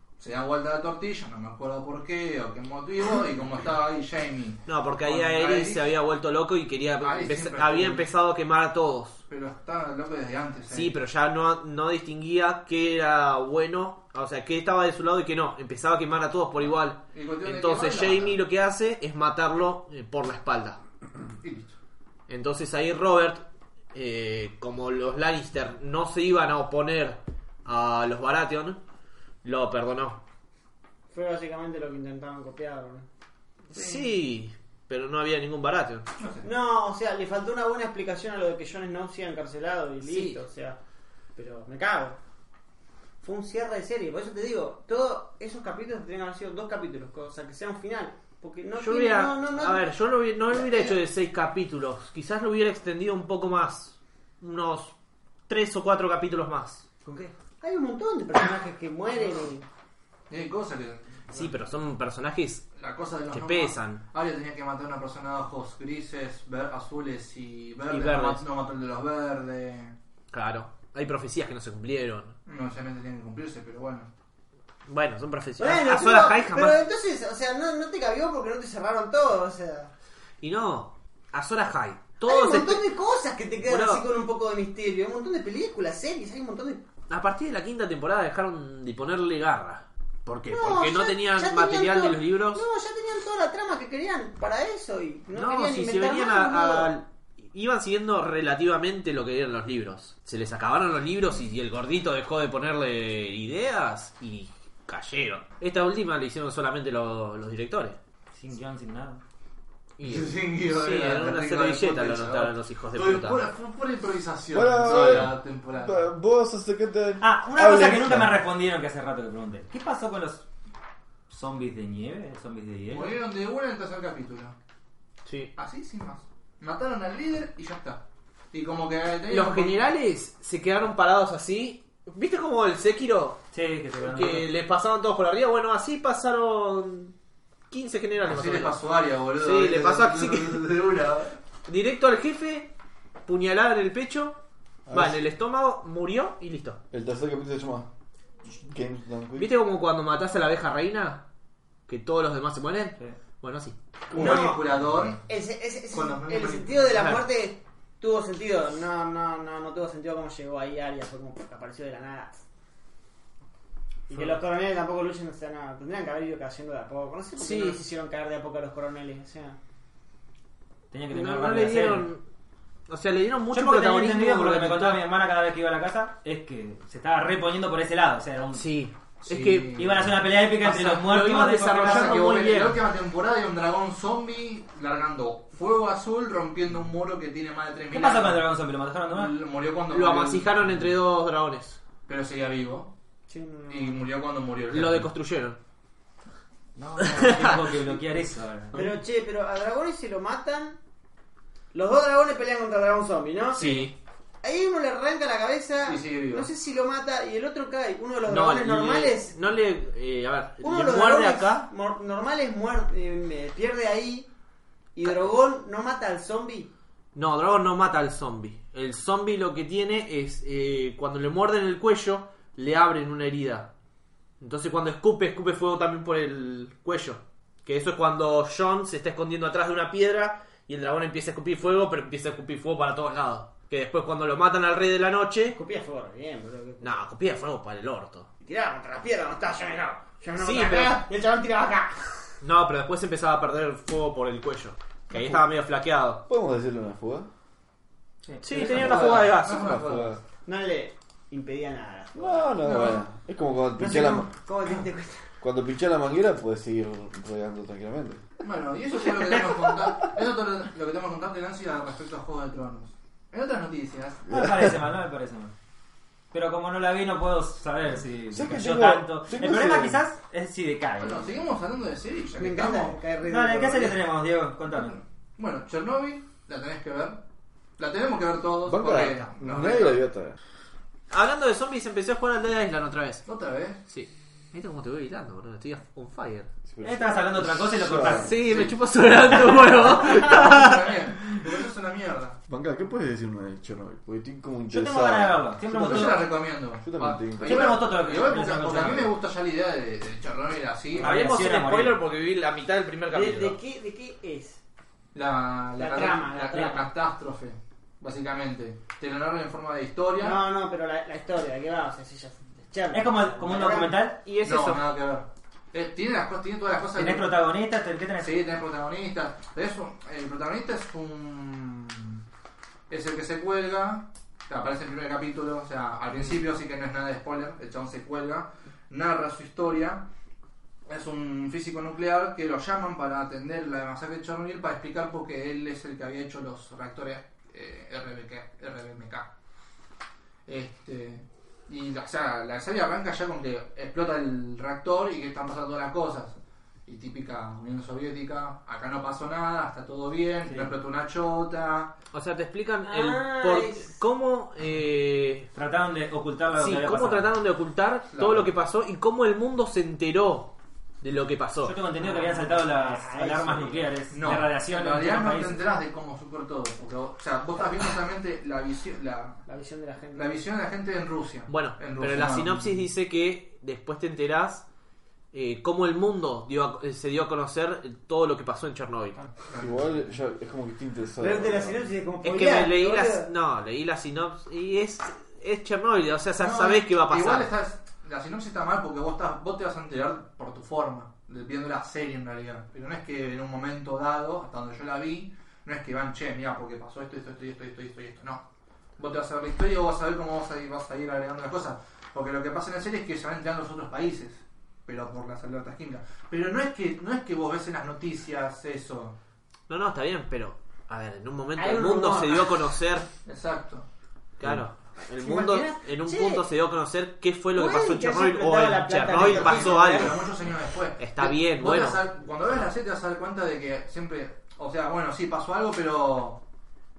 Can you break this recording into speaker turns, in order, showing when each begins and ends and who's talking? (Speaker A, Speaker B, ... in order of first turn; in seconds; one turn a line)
Speaker A: 0.2-5.8
Speaker B: 4.7-9.2
Speaker A: 7.0-8.1
Speaker A: 9.3-10.9
Speaker B: 10.7-20.8
Speaker A: 17.1-18.4
Speaker A: 21.4-21.8
Speaker B: 22.3-23.4
Speaker B: 23.9-28.8
Speaker B: 29.4-30.2
Speaker C: 31.1-33.1
Speaker B: 33.7-36.1
Speaker A: 33.8-34.0
Speaker A: 36.2-36.5
Speaker C: 36.4-40.8
Speaker B: 40.0-40.4
Speaker C: 41.4-42.2
Speaker C: 43.2-49.9
Speaker B: 48.8-55.0
Speaker C: 50.5-51.0
Speaker B: 55.5-56.9
Speaker C: 57.0-59.6
Speaker A: 60.3-61.5
Speaker B: 61.3-62.7
Speaker A: 62.8-70.0
Speaker B: 63.3-64.0
Speaker B: 67.9-68.4
Speaker B: 70.3-72.4
Speaker A: 72.5-74.1
Speaker B: 74.9-76.8
Speaker C: 75.6-79.9
Speaker B: 80.4-82.9
Speaker C: 82.2-86.8
Speaker B: 83.6-84.0
Speaker B: 87.1-92.6
Speaker C: 90.5-96.9
Speaker B: 95.3-108.0
Speaker D: 108.3-109.2
Speaker B: 110.0-113.4
Speaker A: 110.0-116.0
Speaker E: 114.5-118.4
Speaker B: 114.8-115.3
Speaker D: 117.2-120.4
Speaker D: 121.3-123.2
Speaker A: 122.9-124.5
Speaker B: 125.3-125.5
Speaker A: 125.6-129.8
Speaker B: 129.3-133.4
Speaker D: 133.5-134.5
Speaker B: 134.0-137.2
Speaker B: 137.7-138.8
Speaker A: 138.2-141.4
Speaker B: 139.4-140.7
Speaker B: 141.7-142.7
Speaker B: 143.3-144.4
Speaker E: 144.9-145.2
Speaker B: 144.9-146.8
Speaker E: 146.9-147.9
Speaker E: 148.5-149.5
Speaker B: 149.4-151.2
Speaker B: 151.9-154.4
Speaker A: 154.1-155.2
Speaker C: 154.1-162.4
Speaker A: 155.9-157.0
Speaker B: 157.0-157.2
Speaker C: 164.1-169.6
Speaker D: 164.1-164.4
Speaker B: 167.4-167.8
Speaker D: 170.9-172.1
Speaker B: 171.1-172.2
Speaker B: 172.9-175.0
Speaker D: 173.5-178.7
Speaker B: 178.6-179.9
Speaker A: 179.2-180.2
Speaker D: 179.8-182.2
Speaker B: 180.6-182.8
Speaker A: 181.8-188.5
Speaker D: 187.9-189.3
Speaker A: 189.1-190.8
Speaker B: 189.9-191.8
Speaker A: 192.1-192.9
Speaker C: 193.3-194.1
Speaker A: 193.7-195.1
Speaker B: 194.7-195.6
Speaker D: 196.8-198.8
Speaker B: 197.0-197.5
Speaker C: 198.7-200.8
Speaker C: 201.7-203.9
Speaker B: 203.5-204.0
Speaker C: 204.4-209.4
Speaker A: 205.8-206.5
Speaker B: 208.3-211.7
Speaker C: 210.6-214.3
Speaker C: 214.9-216.7
Speaker B: 217.2-223.7
Speaker B: 224.4-235.6
Speaker C: 235.5-237.0
Speaker B: 236.8-238.3
Speaker C: 238.4-242.3
Speaker B: 240.4-241.1
Speaker B: 242.4-246.2
Speaker E: 246.3-247.3
Speaker D: 248.3-248.7
Speaker B: 248.4-249.7
Speaker C: 248.5-249.2
Speaker E: 248.5-250.2
Speaker A: 248.8-250.2
Speaker C: 250.4-253.1
Speaker E: 252.1-254.3
Speaker C: 253.8-255.3
Speaker E: 255.4-258.2
Speaker A: 258.4-264.3
Speaker E: 264.3-264.8
Speaker D: 264.3-265.5
Speaker D: 266.3-271.3
Speaker E: 268.3-270.0
Speaker A: 271.0-273.0
Speaker C: 272.4-274.0
Speaker D: 273.3-275.0
Speaker A: 274.8-277.2
Speaker A: 277.8-280.0
Speaker E: 278.6-280.4
Speaker B: 281.1-283.2
Speaker A: 283.3-283.8
Speaker B: 283.9-286.5
Speaker E: 286.7-288.7
Speaker D: 286.8-288.3
Speaker B: 288.1-290.9
Speaker A: 288.4-288.8
Speaker A: 289.8-292.4
Speaker E: 292.5-296.2
Speaker D: 294.7-296.3
Speaker A: 295.7-301.1
Speaker E: 296.8-297.8
Speaker D: 297.4-299.1
Speaker B: 301.0-303.6
Speaker D: 301.0-302.0
Speaker C: 303.1-304.6
Speaker A: 305.1-310.4
Speaker C: 305.8-306.9
Speaker C: 310.2-314.0
Speaker D: 312.9-314.2
Speaker B: 314.3-314.8
Speaker A: 314.4-317.3
Speaker D: 317.0-318.4
Speaker A: 318.2-322.2
Speaker A: 322.9-330.1
Speaker A: 330.9-339.3
Speaker A: 340.5-351.9
Speaker B: 352.1-355.5
Speaker C: 352.8-353.9
Speaker D: 355.5-357.3
Speaker B: 356.6-361.8
Speaker A: 358.1-358.5
Speaker D: 361.6-365.6
Speaker C: 362.0-363.9
Speaker A: 364.1-369.4
Speaker C: 369.5-370.4
Speaker A: 370.1-372.7
Speaker B: 371.5-374.7
Speaker B: 375.3-379.2
Speaker A: 379.5-380.1
Speaker E: 379.6-381.9
Speaker C: 381.2-383.3
Speaker B: 382.2-387.5
Speaker A: 386.4-398.4
Speaker A: 399.0-409.2
Speaker B: 409.7-413.1
Speaker C: 411.6-412.5
Speaker A: 413.3-413.9
Speaker B: 414.4-420.2
Speaker C: 415.1-416.4
Speaker C: 417.6-420.2
Speaker A: 419.2-426.4
Speaker B: 421.0-422.0